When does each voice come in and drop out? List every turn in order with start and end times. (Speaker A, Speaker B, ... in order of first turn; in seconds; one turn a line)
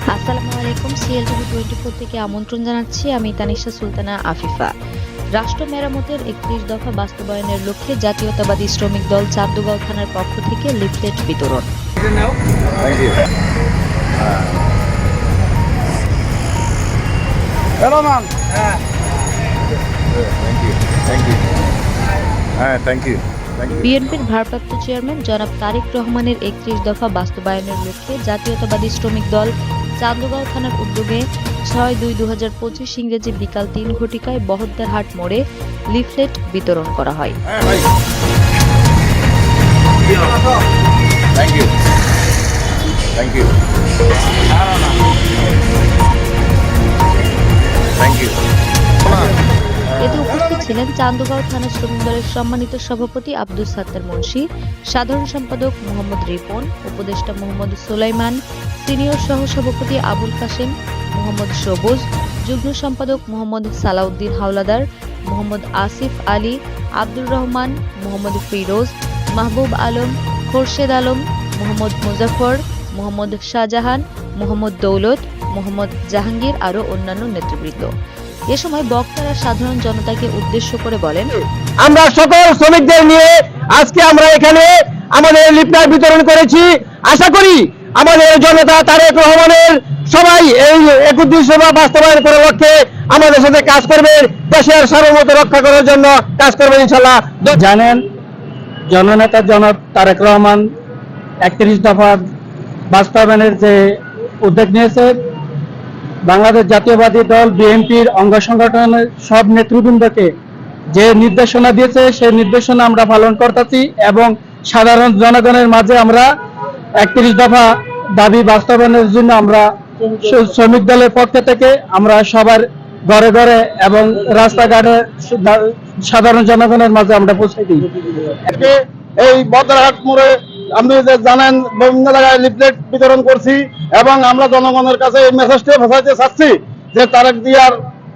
Speaker A: 0.1-4.7
Speaker A: 5.3-11.7
Speaker B: 12.8-13.2
Speaker B: 20.2-21.4
Speaker B: 22.6-23.8
Speaker A: 23.8-35.4
Speaker A: 35.9-37.4
Speaker B: 43.2-43.5
Speaker A: 50.0-77.9
Speaker A: 78.5-81.3
Speaker C: 81.8-97.6
Speaker D: 97.6-98.0
Speaker D: 98.9-100.7
Speaker D: 101.4-102.2
Speaker D: 102.9-105.2
Speaker D: 106.3-110.3
Speaker D: 110.9-116.3
Speaker D: 117.0-128.3
Speaker E: 128.5-137.8